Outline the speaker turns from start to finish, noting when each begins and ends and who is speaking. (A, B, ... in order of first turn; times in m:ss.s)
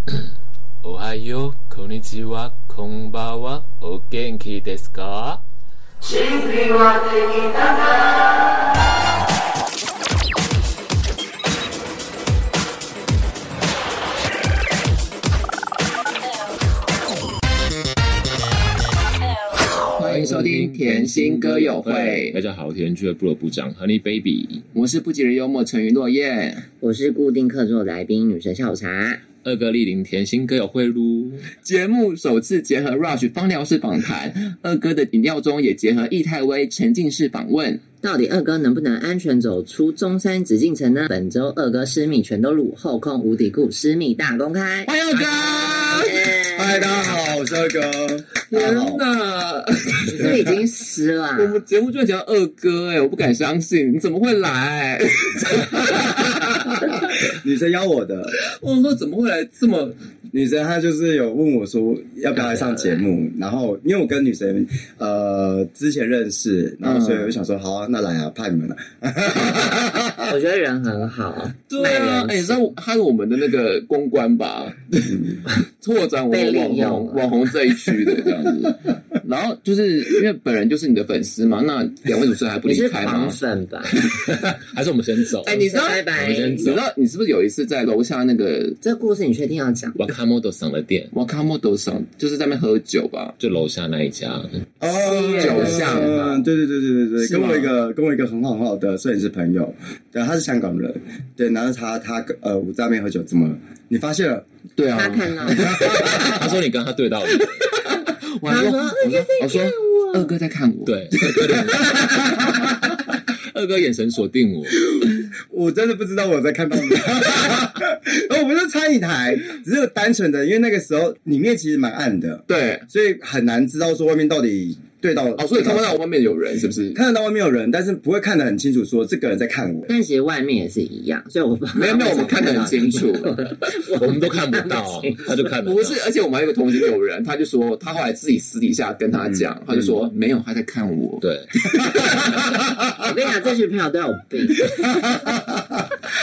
0:00.8-0:05.4 A
0:06.1-0:08.2 B
0:19.9-0:22.4 C
0:20.0-0:24.6 A
0:24.7-0:26.7 C
0:26.8-0:29.2 B
0:29.4-0:31.5 A
0:31.6-0:37.8 C
0:38.0-0:46.9 B
0:44.9-0:46.3 C
0:46.5-0:49.0 D
0:48.5-0:50.4 C
0:50.1-0:51.6 B
0:51.4-0:57.2 C
0:56.9-0:58.3 D
0:58.3-1:00.0 C
1:00.3-1:10.3 D
1:02.3-1:03.0 B
1:06.8-1:07.3 C
1:10.3-1:12.6 B
1:11.7-1:15.2 C
1:15.1-1:15.4 D
1:15.8-1:23.4 C
1:16.3-1:17.3 B
1:22.6-1:24.1 B
1:24.0-1:24.2 C
1:24.1-1:26.8 A
1:25.4-1:28.8 C
1:25.4-1:26.7 B
1:28.8-1:30.0 B
1:30.0-1:31.1 A
1:31.1-1:33.4 C
1:33.4-1:34.6 A
1:34.8-1:44.4 D
1:34.9-1:36.5 B
1:35.2-1:36.2 C
1:37.2-1:37.6 C
1:44.8-1:46.4 C
1:44.9-1:45.7 B
1:45.4-1:46.5 D
1:46.0-1:47.6 A
1:47.4-1:52.1 C
1:48.4-1:50.3 B
1:50.8-1:55.0 A
1:51.6-1:52.4 D
1:55.0-2:06.0 D
2:02.5-2:02.8 C
2:05.4-2:07.0 C
2:06.9-2:09.9 D
2:09.9-2:15.4 B
2:11.7-2:13.4 C
2:13.7-2:16.0 A
2:15.6-2:22.4 C
2:19.2-2:20.0 D
2:21.2-2:21.5 A
2:23.0-2:24.8 B
2:24.9-2:25.8 D